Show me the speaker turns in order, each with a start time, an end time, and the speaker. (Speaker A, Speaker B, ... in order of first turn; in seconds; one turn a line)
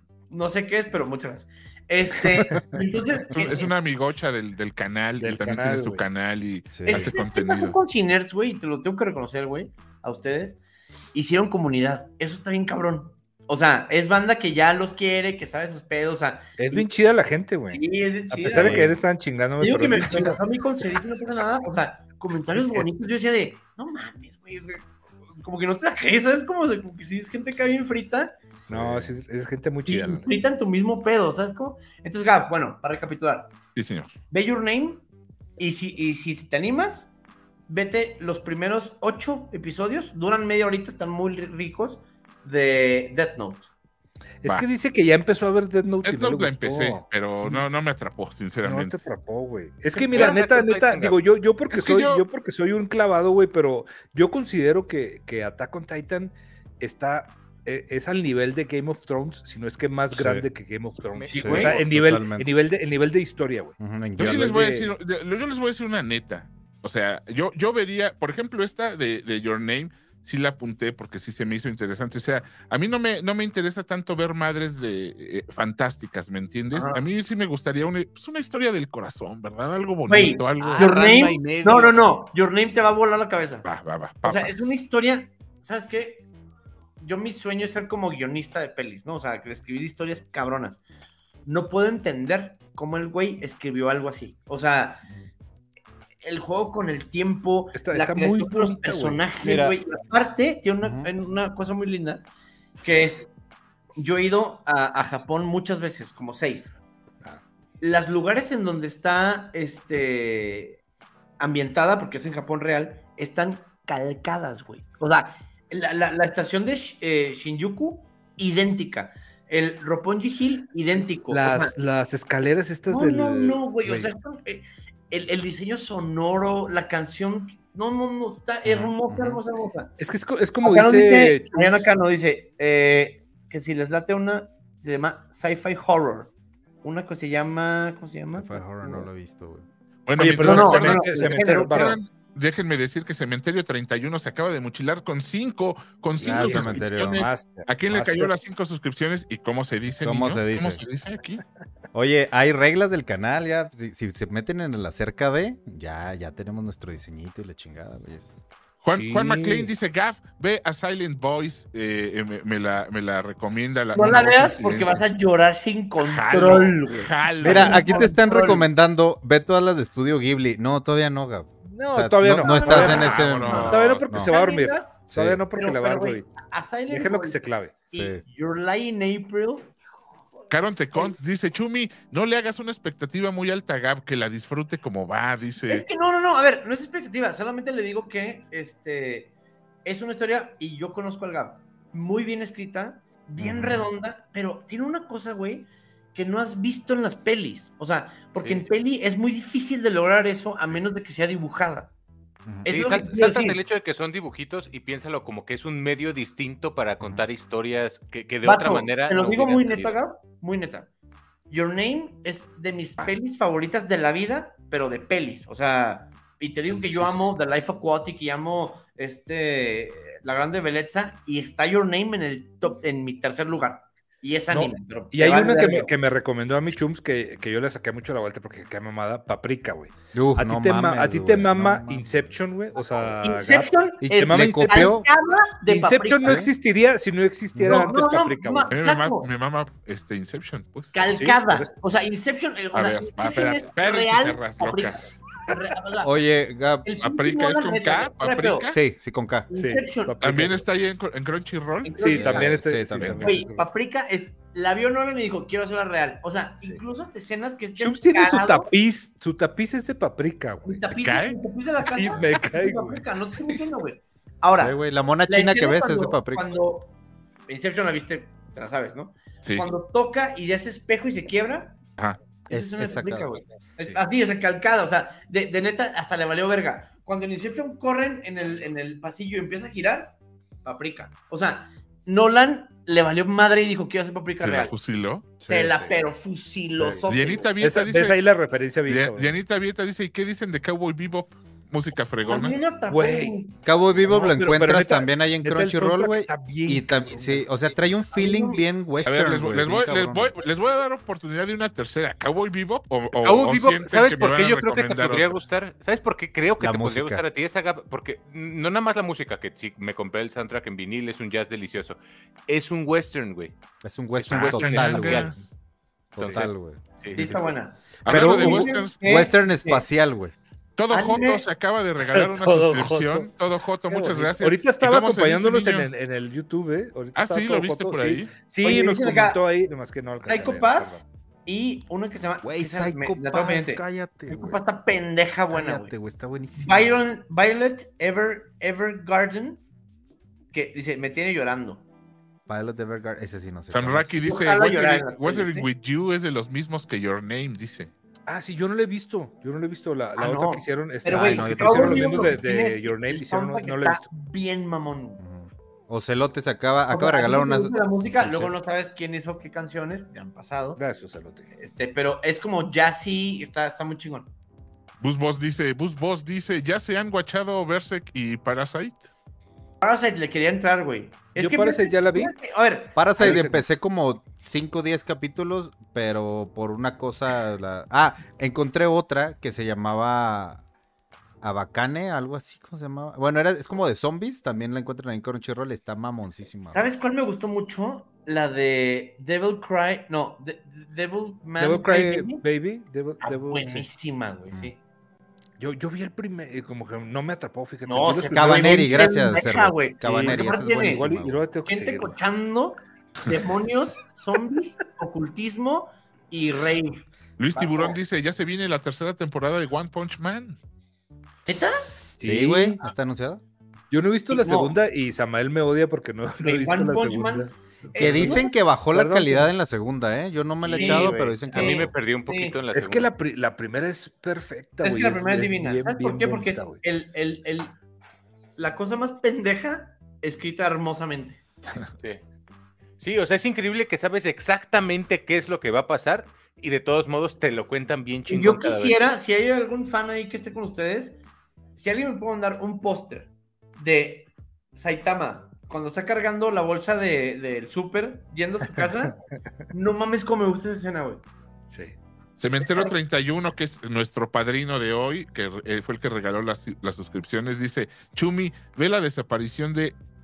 Speaker A: 0.3-3.7
Speaker B: 3.3-7.8
Speaker C: 5.2-6.0
Speaker D: 6.7-7.1
Speaker A: 6.9-10.6
Speaker A: 11.1-16.9
Speaker C: 16.6-20.4
Speaker A: 17.7-19.0
Speaker D: 18.4-18.9
Speaker A: 19.6-24.9
Speaker C: 22.6-22.9
Speaker A: 25.4-28.4
Speaker D: 28.6-29.2
Speaker C: 28.7-30.3
Speaker A: 29.9-33.5
Speaker B: 33.8-34.1
Speaker A: 34.3-35.0
Speaker A: 35.6-37.1
Speaker A: 37.7-43.7
Speaker C: 44.4-47.6
Speaker B: 46.0-49.0
Speaker C: 48.6-64.9
Speaker E: 49.9-51.2
Speaker B: 51.7-52.2
Speaker D: 60.1-60.5
Speaker E: 61.1-61.6
Speaker A: 61.3-61.8
Speaker D: 61.4-62.5
Speaker D: 63.8-64.6
Speaker B: 64.2-80.8
Speaker A: 76.7-77.0
Speaker A: 80.1-83.7
Speaker E: 80.6-82.2
Speaker B: 83.6-84.7
Speaker A: 84.2-86.2
Speaker A: 87.0-90.8
Speaker A: 91.5-95.0
Speaker A: 96.2-102.2
Speaker C: 97.8-99.3
Speaker D: 99.4-99.8
Speaker D: 100.8-101.1
Speaker A: 102.8-103.3
Speaker A: 104.0-106.7
Speaker A: 107.8-110.8
Speaker A: 111.4-121.7
Speaker C: 121.3-124.1
Speaker A: 122.9-129.9
Speaker D: 128.7-129.4
Speaker C: 130.0-131.9
Speaker A: 130.6-136.3
Speaker A: 136.8-139.1
Speaker D: 138.3-139.7
Speaker B: 140.1-151.4
Speaker C: 140.2-142.0
Speaker A: 140.4-142.0
Speaker C: 146.2-148.3
Speaker D: 146.2-147.3
Speaker D: 150.0-150.8
Speaker D: 151.9-158.3
Speaker B: 158.8-165.0
Speaker C: 158.9-159.7
Speaker A: 163.9-168.7
Speaker B: 166.0-168.1
Speaker D: 167.4-174.3
Speaker C: 171.7-176.3
Speaker A: 172.4-174.9
Speaker B: 172.7-174.1
Speaker D: 175.1-175.4
Speaker A: 175.5-179.7
Speaker C: 176.9-177.8
Speaker D: 177.9-178.2
Speaker B: 180.5-185.9
Speaker A: 185.7-189.3
Speaker A: 189.8-201.9
Speaker D: 193.4-193.8
Speaker E: 198.4-198.7
Speaker A: 202.7-203.6
Speaker E: 202.7-209.9
Speaker A: 208.4-210.9
Speaker A: 211.5-225.9
Speaker C: 224.5-235.0
Speaker D: 230.1-232.3
Speaker A: 233.2-236.4
Speaker D: 234.0-235.1
Speaker C: 235.7-238.7
Speaker D: 236.2-236.5
Speaker D: 237.6-237.9
Speaker A: 237.7-239.3
Speaker B: 238.7-241.2
Speaker A: 240.9-246.1
Speaker C: 241.2-241.7
Speaker B: 242.7-245.2
Speaker D: 246.0-246.9
Speaker A: 246.8-248.7
Speaker B: 247.0-248.8
Speaker D: 248.7-249.5
Speaker A: 249.5-250.2
Speaker C: 249.5-250.6
Speaker B: 250.2-252.3
Speaker A: 251.8-252.6
Speaker C: 252.0-253.7
Speaker D: 252.2-253.3
Speaker A: 253.2-258.7
Speaker C: 257.8-260.9
Speaker A: 260.6-266.9
Speaker B: 261.0-261.4
Speaker C: 261.8-263.0
Speaker D: 264.6-266.5
Speaker A: 267.5-271.8
Speaker B: 269.4-269.7
Speaker A: 272.4-284.8
Speaker D: 272.5-274.0
Speaker B: 284.4-285.3
Speaker D: 285.4-285.7
Speaker A: 285.5-287.5
Speaker D: 286.8-287.1
Speaker B: 287.1-288.2
Speaker C: 287.6-289.3
Speaker B: 288.9-292.6
Speaker A: 292.3-293.6
Speaker C: 292.9-293.4
Speaker D: 293.6-300.3
Speaker C: 294.0-297.5
Speaker A: 298.1-298.7
Speaker B: 299.1-305.4
Speaker E: 303.2-313.6
Speaker D: 306.6-307.2
Speaker D: 313.8-315.3
Speaker E: 314.2-315.4
Speaker B: 314.3-315.5
Speaker D: 316.1-317.4
Speaker E: 316.2-317.4
Speaker A: 317.1-319.9
Speaker B: 318.1-319.0
Speaker D: 318.1-320.3
Speaker B: 320.8-325.9
Speaker A: 320.9-321.4
Speaker C: 322.0-323.3
Speaker C: 323.9-331.0
Speaker B: 327.1-328.3
Speaker A: 328.6-329.4
Speaker A: 330.2-335.9
Speaker D: 332.4-334.6
Speaker D: 335.5-337.0
Speaker A: 336.6-339.6
Speaker A: 340.5-341.8
Speaker D: 342.5-344.3
Speaker B: 343.7-347.9
Speaker A: 344.2-345.7
Speaker C: 348.3-354.0
Speaker A: 350.2-355.2
Speaker D: 351.1-352.4
Speaker D: 355.2-358.5
Speaker A: 356.9-360.8
Speaker C: 360.8-361.5
Speaker A: 361.5-364.3
Speaker B: 365.0-369.1
Speaker A: 369.8-373.4
Speaker C: 371.4-372.4
Speaker D: 372.9-380.6
Speaker C: 373.2-373.6
Speaker D: 381.4-386.9
Speaker A: 386.7-392.4
Speaker C: 391.6-393.9
Speaker A: 393.2-394.8
Speaker C: 395.6-399.2
Speaker A: 397.9-401.1
Speaker D: 398.3-401.4
Speaker C: 400.0-402.2
Speaker A: 401.7-408.0
Speaker B: 407.4-410.6
Speaker A: 411.5-411.9
Speaker D: 412.2-413.4
Speaker C: 412.2-412.8
Speaker C: 413.9-419.5
Speaker A: 414.3-414.8
Speaker A: 416.4-418.5
Speaker D: 418.0-421.9
Speaker A: 420.7-422.6
Speaker E: 421.5-423.1
Speaker C: 422.7-426.8
Speaker A: 424.8-427.7
Speaker A: 428.6-431.4
Speaker C: 431.6-431.9
Speaker E: 431.9-432.2
Speaker E: 433.0-439.0
Speaker A: 438.3-441.2
Speaker A: 441.8-449.2
Speaker A: 449.7-451.2
Speaker C: 451.7-451.9
Speaker B: 452.4-460.0
Speaker A: 452.6-452.9